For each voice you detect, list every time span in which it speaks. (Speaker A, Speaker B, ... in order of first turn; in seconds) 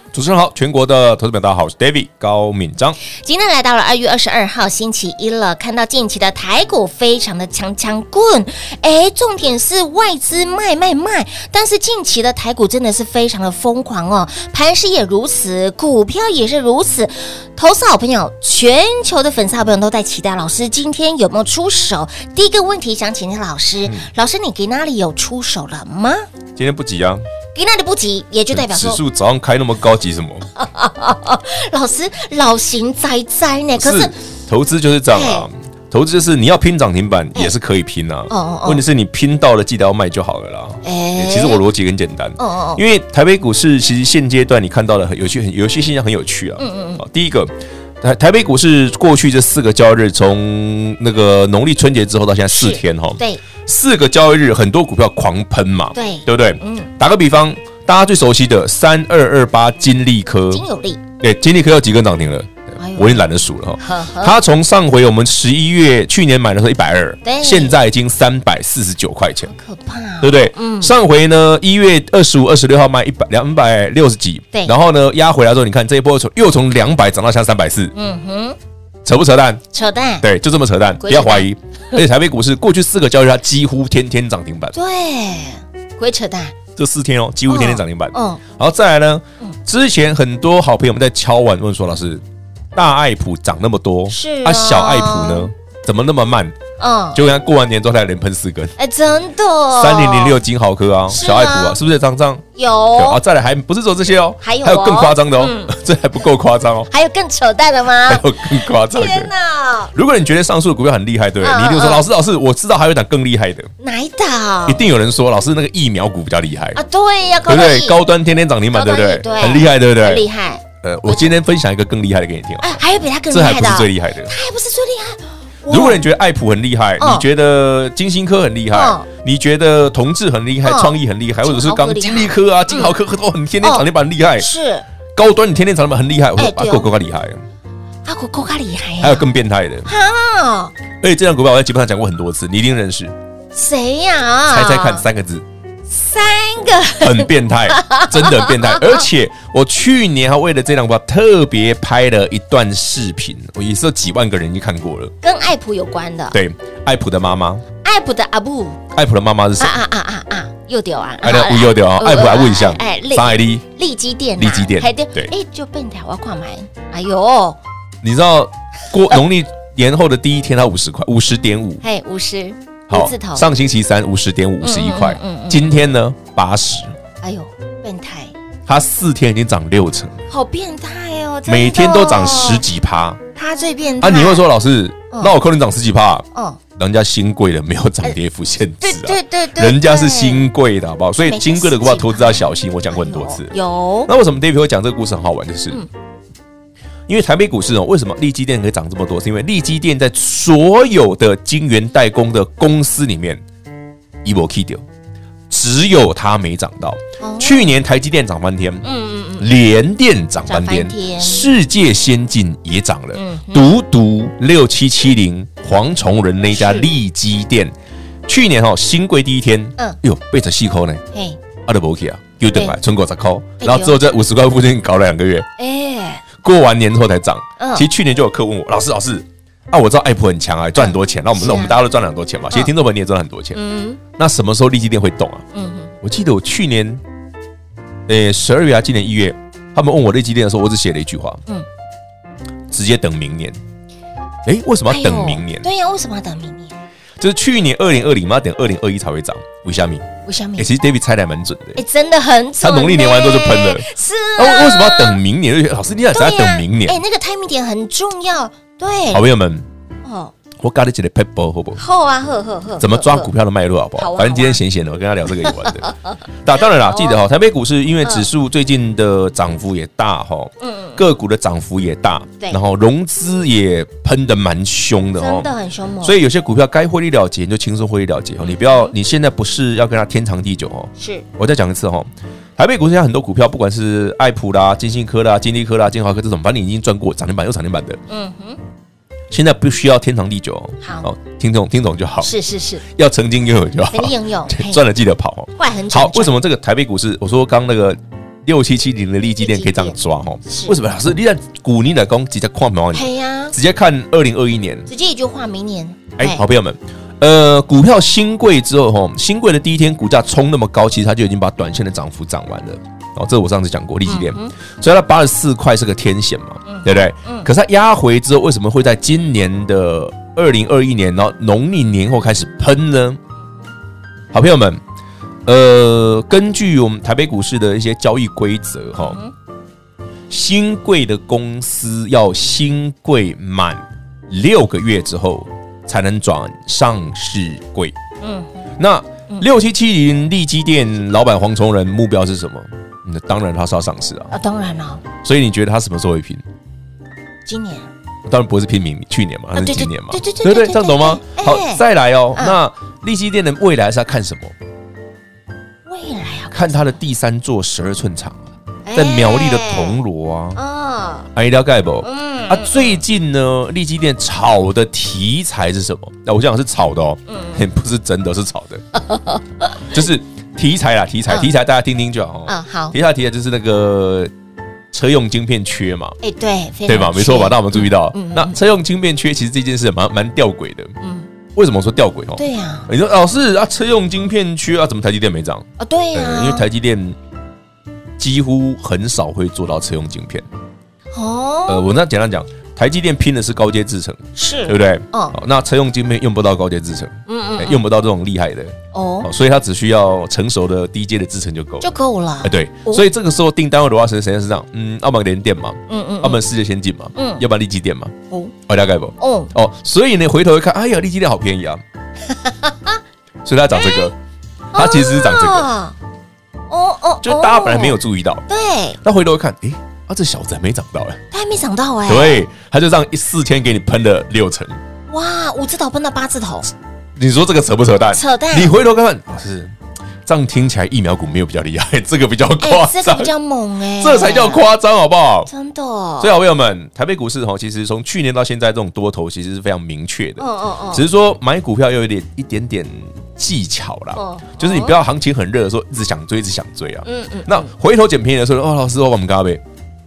Speaker A: 0.1-3.0, 26.6-27.2, 28.5-30.5, 33.8-60.6, 61.2-69.5, 70.2-77.9, 79.0-79.6, 80.2-84.8, 86.8-92.2, 92.8-96.6, 97.1-98.8, 99.7-102.4, 103.0-106.9, 108.0-109.3, 109.9-113.7, 114.7-116.8, 117.5-120.2, 120.8-124.3, 125.7-134.5, 135.2-137.4, 139.0-139.9, 141.0-143.1, 144.5-145.4, 147.0-155.1, 156.3-157.6, 158.9-159.8, 161.2-163.7, 164.4-165.3, 168.0-171.8, 172.9-177.0, 178.7-180.2, 181.5-183.2, 184.0-186.3, 186.8-195.8, 197.1-203.4, 204.2-204.8, 205.5-208.9, 209.4-217.8, 218.3-221.0, 221.6-225.5, 226.4-233.6, 234.2-235.4, 236.0-237.0, 238.1-241.4, 242.7-243.6, 244.4-245.7, 247.2-250.1, 250.6-251.8, 252.6-257.0, 259.1-259.7, 260.6-261.8, 262.8-265.9, 266.4-275.5, 276.0-288.0, 289.3-292.3, 292.9-304.9, 306.2-323.2, 324.3-324.8, 325.5-329.2, 330.3-337.9, 338.8-344.3, 345.2-346.4, 348.3-354.5, 356.5-360.6, 361.3-368.8, 369.9-374.3, 374.9-376.2, 376.9-380.9, 381.6-387.2, 388.2-390.5, 391.7-401.9, 402.4-408.2, 408.7-411.8, 413.4-414.2, 414.7-415.7, 417.2-418.4, 419.0-421.2, 422.1-424.8, 427.2-429.8, 430.3-433.3, 434.0-435.5, 436.2-449.6
Speaker B: 3.2-26.2, 27.6-29.0, 30.6-34.2, 35.1-35.5, 38.3-38.8, 40.8-41.6, 42.4-42.8, 46.6-47.0, 52.5-53.4, 55.9-56.9, 60.5-61.0, 62.8-63.3, 63.8-64.4, 67.2-67.8, 69.4-70.9, 78.0-78.6, 79.7-80.3, 81.0-81.5, 84.7-86.5, 87.5-88.4, 94.1-95.5, 96.8-97.2, 98.8-100.4, 101.1-101.8, 102.6-103.2, 104.4-105.8, 106.9-109.9, 111.4-112.1, 113.8-114.9, 116.7-118.0, 118.7-121.3, 122.6-126.0, 127.0-127.2, 128.7-129.1, 130.6-132.9, 134.4-134.8, 136.4-136.9, 138.1-139.3, 139.9-140.7, 143.5-145.1, 145.9-149.0, 155.2-156.4, 157.8-158.8, 159.6-167.6, 171.8-173.5, 174.6-175.7, 177.2-178.3, 180.3-182.6, 183.3-184.5, 185.1-185.4, 186.3-186.6, 188.8-190.5, 191.2-194.1, 207.2-207.8, 208.8-209.5, 210.5-211.5, 213.1-213.8, 216.5-216.9, 221.1-221.4, 223.6-224.0, 225.6-226.2, 227.6-227.9, 230.8-231.8, 233.5-234.0, 235.5-235.9, 244.9-246.8, 250.3-250.7, 251.8-255.2, 256.1-259.2, 260.1-260.3, 261.8-263.3, 264.0-264.6, 265.5-265.9, 266.9-267.2, 270.6-271.0, 275.2-276.2, 278.4-278.9, 281.0-281.3, 288.1-288.6, 290.8-291.1, 292.2-292.8, 293.9-294.8, 295.6-296.4, 299.4-300.8, 302.9-303.6, 304.9-306.4, 314.1-314.5, 316.7-317.5, 329.0-329.3, 338.2-338.5, 344.3-345.0, 347.5-347.9, 349.6-351.8, 355.9-356.9, 358.9-360.0, 360.6-361.3, 362.0-363.0, 367.3-367.6, 369.0-369.8, 372.5-373.0, 376.2-378.6, 381.0-381.3, 382.4-382.9, 385.8-386.7, 391.1-391.9, 394.4-395.4, 397.3-397.8, 398.9-399.3, 401.8-403.1, 405.9-406.4, 407.1-407.4, 409.2-409.5, 412.3-413.0, 413.7-414.1, 414.7-415.9, 416.7-419.0, 421.3-422.5, 425.1-426.7, 428.1-428.7, 432.6-434.7, 435.5-436.3, 440.4-441.1, 444.1-445.0, 447.0-447.7